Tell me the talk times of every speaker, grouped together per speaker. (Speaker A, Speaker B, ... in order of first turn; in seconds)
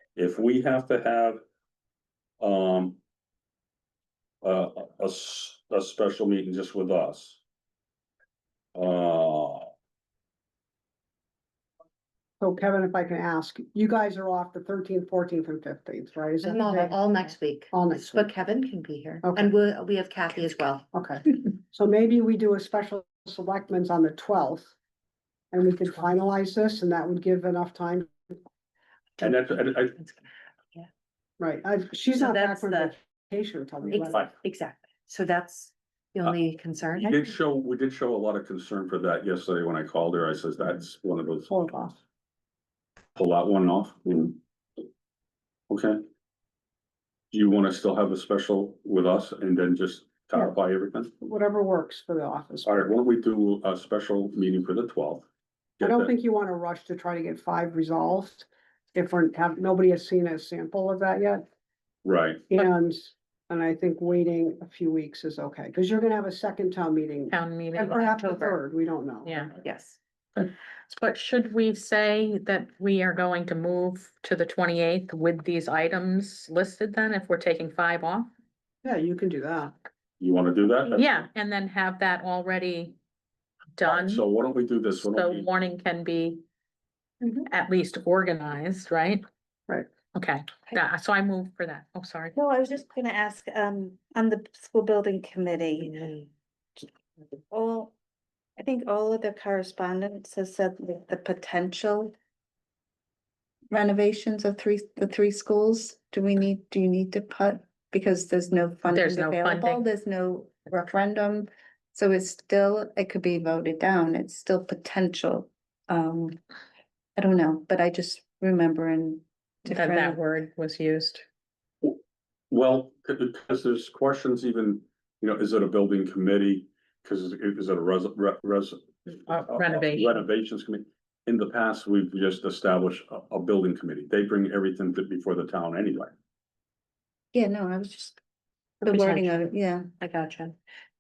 Speaker A: 0.1-1.4, 2.4-3.0, 4.4-7.4, 8.7-9.7, 29.2-30.0, 34.0-34.3, 37.0-41.5, 43.1-44.4, 45.7-46.0, 47.3-51.1, 52.6-55.3, 55.8-56.1, 62.0-62.5, 80.2-81.3, 83.8-85.5, 122.5-136.1
Speaker B: 12.4-18.3, 19.2-19.5, 20.9-24.7, 25.5-28.1, 31.4-34.2, 41.5-42.0, 51.2-52.9, 55.8-61.4, 62.5-69.5, 78.8-79.7
Speaker C: 16.4-20.9, 29.9-30.2, 32.1-32.9, 33.9-37.3, 68.0-68.6, 69.6-70.0, 138.8-139.4, 140.0-140.5
Speaker D: 67.3-68.1, 69.2-69.5, 70.3-78.3, 80.9-83.0, 83.8-84.2, 85.0-86.4, 87.5-89.2, 90.1-92.3, 108.9-109.9, 119.7-121.2, 129.2-130.2
Speaker E: 92.3-96.0, 97.5-97.9, 98.6-102.1, 103.7-116.4, 117.2-120.2, 137.3-138.2, 138.8-139.9